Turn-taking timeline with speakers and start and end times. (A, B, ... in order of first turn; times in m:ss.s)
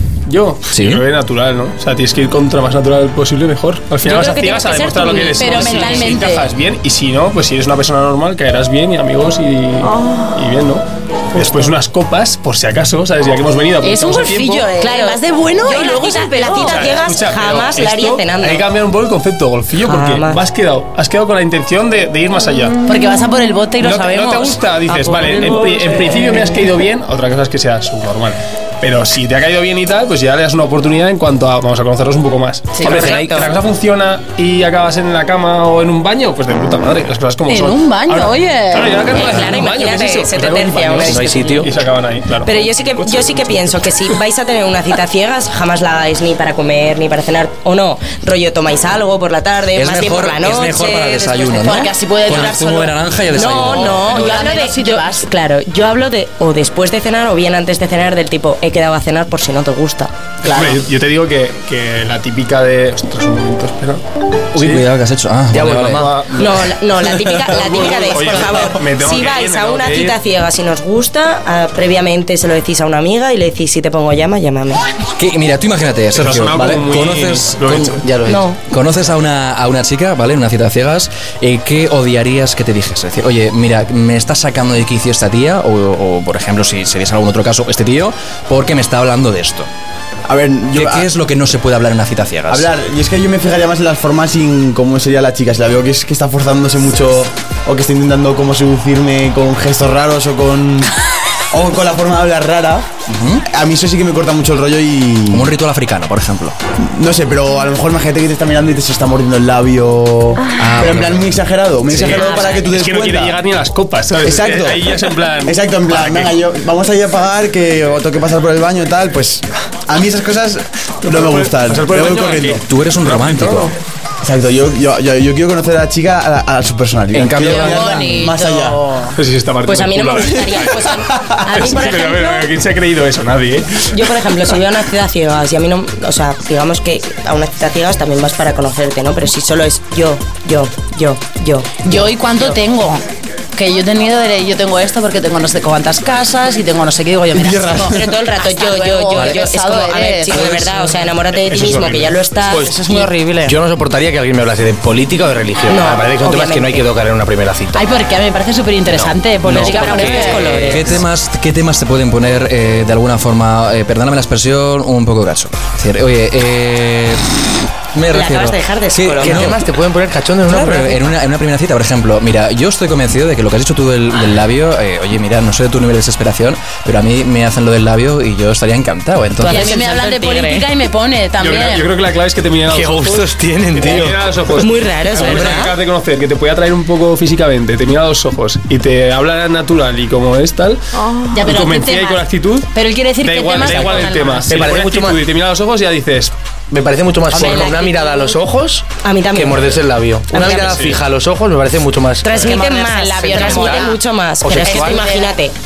0:00.3-0:14.7 A
0:00.7-0:01.0 B
0:04.0-0:06.4 C
0:05.4-0:06.5 D
0:11.4-0:11.6 C
0:13.8-0:17.0 D
0:14.8-0:18.6 C
0:16.5-0:22.8 A
0:19.9-0:20.4 C
0:22.8-0:25.2 D
0:23.8-0:43.7 A
0:25.3-0:25.8 C
0:32.8-0:33.5 D
0:32.8-0:33.5 E
0:37.5-0:39.0 D
0:39.1-0:41.7 C
0:41.0-0:41.7 E
0:42.4-0:52.5 C
0:49.8-0:54.3 B
0:51.6-0:55.3 D
0:53.3-1:00.1 C
1:00.4-1:00.8 D
1:00.5-1:04.0 A
1:04.5-1:06.1 B
1:05.5-1:06.2 E
1:05.9-1:06.6 A
1:06.4-1:14.8 C
1:07.3-1:10.2 A
1:15.2-1:18.0 B
1:16.1-1:18.0 A
1:18.0-1:18.4 E
1:18.3-1:18.6 C
1:18.7-1:29.7 B
1:30.3-1:31.1 F
1:30.7-1:32.7 B
1:32.5-1:40.9 F
1:41.5-1:42.9 F
1:43.1-1:43.4 B
1:43.5-1:45.5 F
1:45.3-1:46.6 B
1:46.8-1:53.4 F
1:50.6-1:51.3 B
1:52.0-1:56.3 A
1:52.1-1:52.7 C
1:54.2-2:02.6 F
2:01.1-2:03.7 A
2:02.6-2:03.7 B
2:04.2-2:08.8 F
2:07.1-2:08.2 B
2:07.4-2:09.2 D
2:09.2-2:13.9 A
2:09.6-2:12.5 C
2:13.9-2:21.9 C
2:21.8-2:23.0 D
2:23.6-2:30.8 D
2:27.3-2:28.1 F
2:27.9-2:33.1 C
2:31.5-2:32.2 A
2:32.5-2:33.6 D
2:33.4-2:37.9 E
2:35.7-2:36.8 C
2:37.7-2:40.8 D
2:38.9-2:40.6 E
2:39.4-2:41.0 C
2:40.6-2:47.2 B
2:47.9-2:49.6 B
2:48.1-2:49.5 C
2:49.2-2:51.0 E
2:50.5-2:59.7 B
2:59.4-3:00.7 C
2:59.5-3:01.9 D
3:01.4-3:10.8 A
3:02.7-3:04.2 E
3:04.6-3:05.7 C
3:11.3-3:12.2 D
3:11.4-3:12.7 A
3:12.7-3:14.6 D
3:13.2-3:16.3 A
3:13.6-3:15.2 E
3:16.7-3:22.6 E
3:17.3-3:18.4 C
3:19.0-3:19.7 C
3:20.3-3:20.8 C
3:20.4-3:21.0 A
3:22.2-3:25.6 C
3:22.3-3:24.0 D
3:23.3-3:23.8 E
3:24.4-3:25.0 E
3:24.5-3:25.4 D